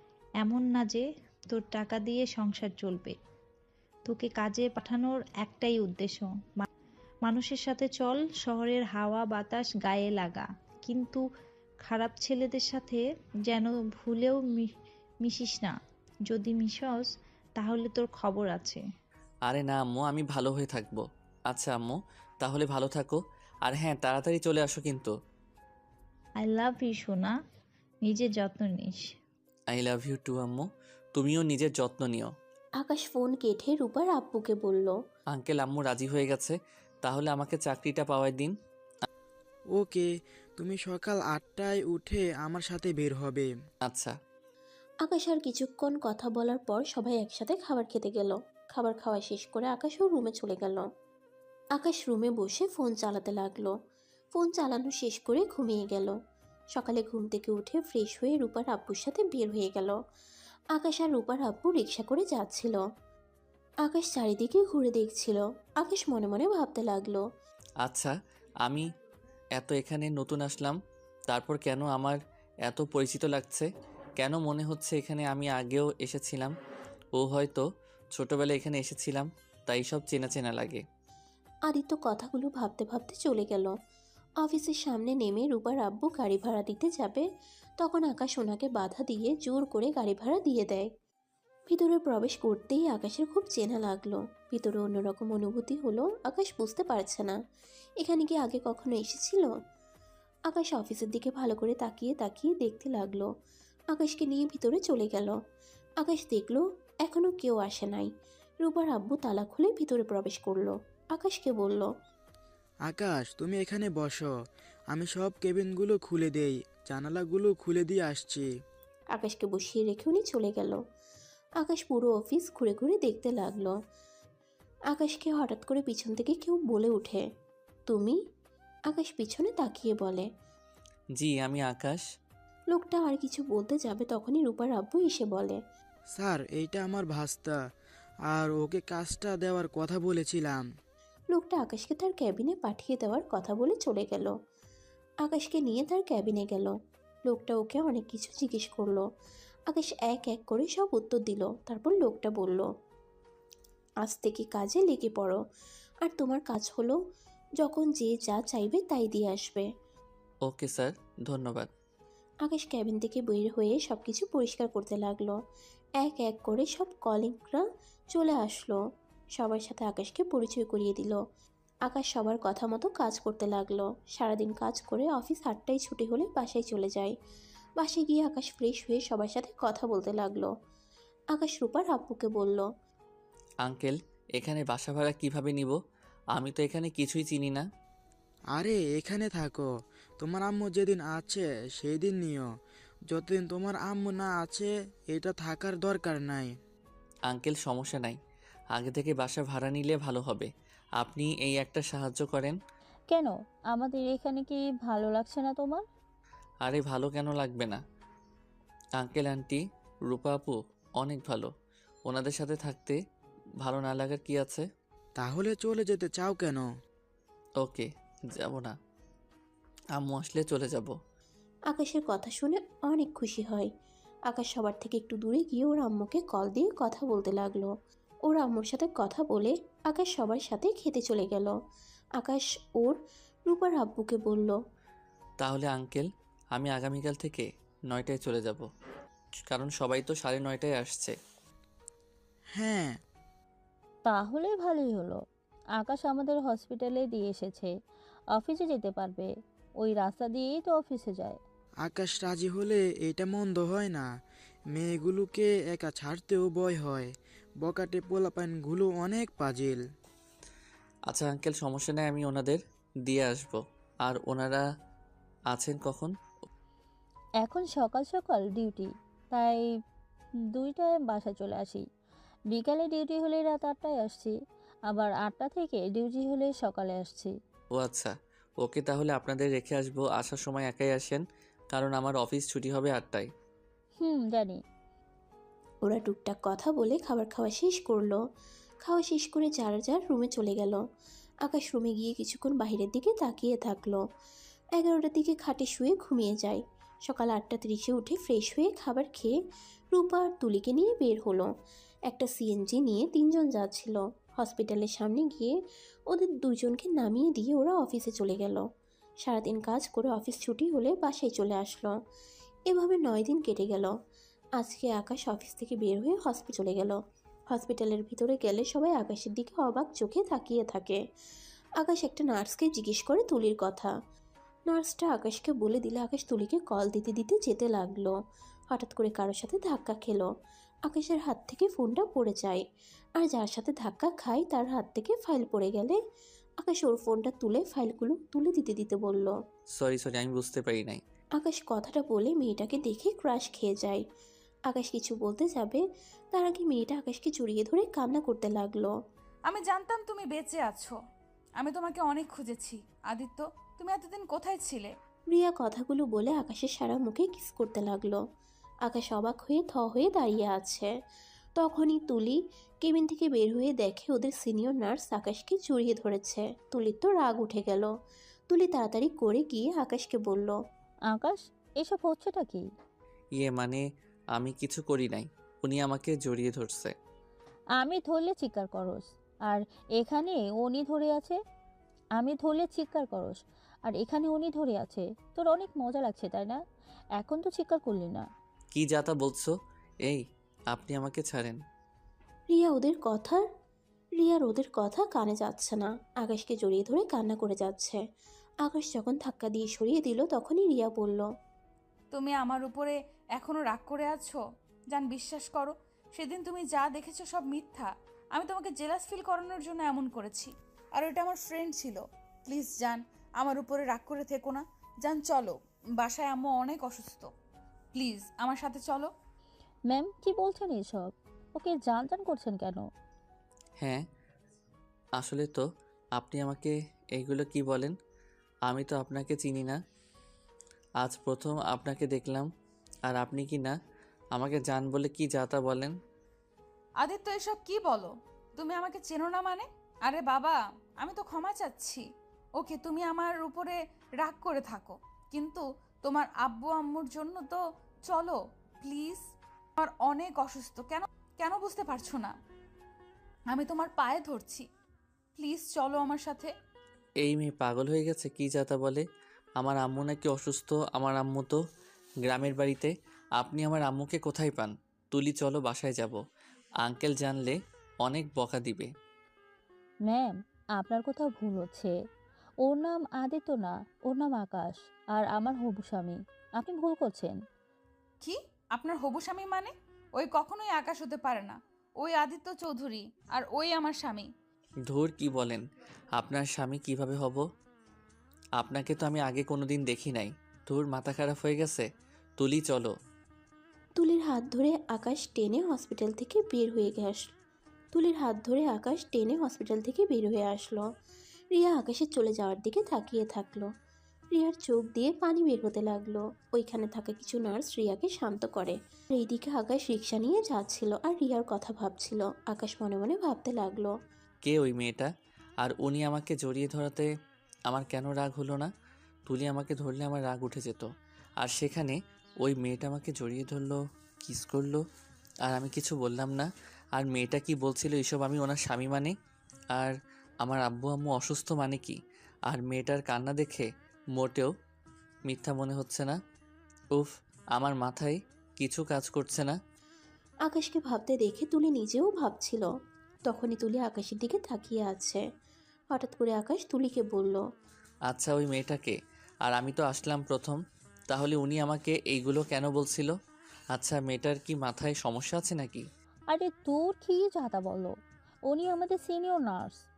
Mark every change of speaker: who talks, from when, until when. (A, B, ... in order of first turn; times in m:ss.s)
0:00.4-0:03.2 A
0:04.1-0:06.7 A
0:07.2-0:11.2 A
0:11.8-0:14.7 A
0:15.2-0:15.8 A
0:16.3-0:18.8 A
0:19.5-0:25.1 B
0:26.4-0:27.4 A
0:28.0-0:29.0 A
0:29.7-0:32.3 B
0:32.8-0:35.0 C
0:35.3-0:38.5 B
0:39.8-0:43.5 D
0:43.8-0:44.1 B
0:45.0-0:50.8 C
0:51.8-0:53.7 C
0:54.4-0:56.1 C
0:56.8-1:00.0 C
1:00.7-1:02.8 C
1:03.8-1:07.2 C
1:07.8-1:08.1 B
1:09.6-1:10.8 B
1:11.3-1:13.7 B
1:14.2-1:16.5 B
1:17.2-1:17.6 B
1:18.2-1:20.8 B
1:21.7-1:23.7 C
1:24.4-1:27.3 C
1:27.8-1:30.9 C
1:31.7-1:37.4 C
1:38.0-1:39.5 C
1:40.5-1:43.3 C
1:43.9-1:45.3 C
1:46.0-1:48.1 C
1:48.6-1:51.9 C
1:52.9-1:54.3 D
1:54.9-1:58.5 D
1:59.1-2:00.8 C
2:01.6-2:03.7 C
2:04.9-2:07.2 C
2:07.9-2:08.2 C
2:08.9-2:10.3 C
2:11.2-2:12.0 B
2:12.7-2:15.6 C
2:16.2-2:17.6 D
2:18.3-2:20.6 D
2:21.3-2:24.3 C
2:25.2-2:26.7 C
2:27.3-2:29.0 C
2:29.7-2:32.7 C
2:34.0-2:35.4 C
2:36.0-2:37.0 C
2:37.6-2:39.7 C
2:40.5-2:41.7 B
2:42.4-2:45.4 C
2:46.0-2:48.8 C
2:49.4-2:51.2 C
2:51.9-2:57.2 C
2:57.8-3:00.5 C
3:01.3-3:02.7 C
3:03.6-3:05.8 B
3:06.4-3:07.6 B
3:08.6-3:09.7 D
3:10.2-3:12.5 D
3:13.1-3:16.5 D
3:17.3-3:18.2 B
3:18.8-3:22.6 B
3:23.1-3:25.8 E
3:26.6-3:27.8 B
3:29.0-3:31.5 B
3:32.1-3:33.0 B
3:33.6-3:34.6 B
3:35.2-3:36.6 D
3:37.6-3:37.9 B
3:38.4-3:38.8 B
3:40.0-3:40.9 B
3:41.7-3:43.7 C
3:44.3-3:47.7 C
3:48.3-3:51.5 C
3:52.2-3:54.6 C
3:55.4-3:58.7 B
3:59.5-4:01.1 B
4:02.6-4:03.0 D
4:04.1-4:05.2 E
4:05.8-4:07.7 E
4:08.3-4:09.3 E
4:09.8-4:11.4 E
4:11.8-4:14.1 D
4:14.7-4:17.1 D
4:17.6-4:19.8 D
4:21.1-4:24.6 B
4:25.5-4:26.1 B
4:27.4-4:29.6 E
4:30.6-4:31.8 E
4:32.5-4:34.4 E
4:34.9-4:37.3 E
4:37.8-4:43.3 B
4:44.0-4:44.6 E
4:45.8-4:48.2 C
4:48.8-4:50.8 C
4:51.4-4:54.0 C
4:54.8-4:59.3 C
4:59.9-5:01.5 C
5:02.1-5:05.6 C
5:06.1-5:08.6 C
5:09.2-5:11.9 C
5:12.7-5:13.9 C
5:14.6-5:17.0 C
5:17.5-5:21.0 C
5:21.8-5:23.9 C
5:24.7-5:28.1 C
5:28.7-5:30.3 C
5:30.9-5:32.6 C
5:33.2-5:36.0 C
5:36.6-5:39.3 C
5:39.8-5:41.0 B
5:41.4-5:44.0 C
5:44.7-5:45.8 C
5:46.3-5:48.9 C
5:49.5-5:51.0 F
5:51.6-5:54.9 F
5:55.3-5:58.2 C
5:58.9-6:00.9 C
6:01.6-6:07.9 C
6:08.5-6:10.6 C
6:11.1-6:12.6 E
6:13.4-6:13.8 B
6:14.4-6:16.9 B
6:17.8-6:21.4 E
6:22.2-6:26.6 E
6:27.2-6:28.3 E
6:28.7-6:29.5 B
6:30.1-6:31.6 B
6:32.5-6:33.4 C
6:34.2-6:38.0 C
6:38.6-6:41.3 C
6:42.1-6:57.3 F
6:57.9-6:59.1 F
6:59.9-7:02.8 E
7:05.2-7:05.7 B
7:06.2-7:07.9 B
7:08.7-7:09.8 B
7:11.0-7:12.5 B
7:13.1-7:13.8 B
7:14.4-7:15.9 B
7:17.0-7:29.2 F
7:29.8-7:32.3 F
7:33.5-7:34.7 F
7:35.4-7:36.5 F
7:37.2-7:39.0 B
7:39.6-7:41.6 B
7:42.2-7:46.2 B
7:46.8-7:48.9 B
7:50.1-7:51.9 E
7:52.6-7:57.4 E
7:58.2-8:04.3 F
8:04.9-8:05.6 B
8:06.2-8:07.4 B
8:08.6-8:11.8 B
8:12.4-8:12.9 B
8:14.0-8:17.2 C
8:17.9-8:20.8 C
8:21.5-8:23.7 C
8:24.3-8:33.9 C
8:34.4-8:35.1 B
8:35.6-8:37.1 B
8:37.7-8:38.7 B
8:39.3-8:40.9 B
8:41.4-8:44.8 B
8:45.4-8:49.1 B
8:49.7-8:52.0 B
8:52.5-8:54.5 B
8:55.3-8:56.2 B
8:56.9-8:59.6 B
9:00.5-9:02.7 C
9:03.3-9:05.2 C
9:05.9-9:07.4 C
9:08.1-9:10.6 B
9:11.1-9:13.1 B
9:13.7-9:15.8 B
9:16.3-9:17.9 E
9:18.5-9:19.8 E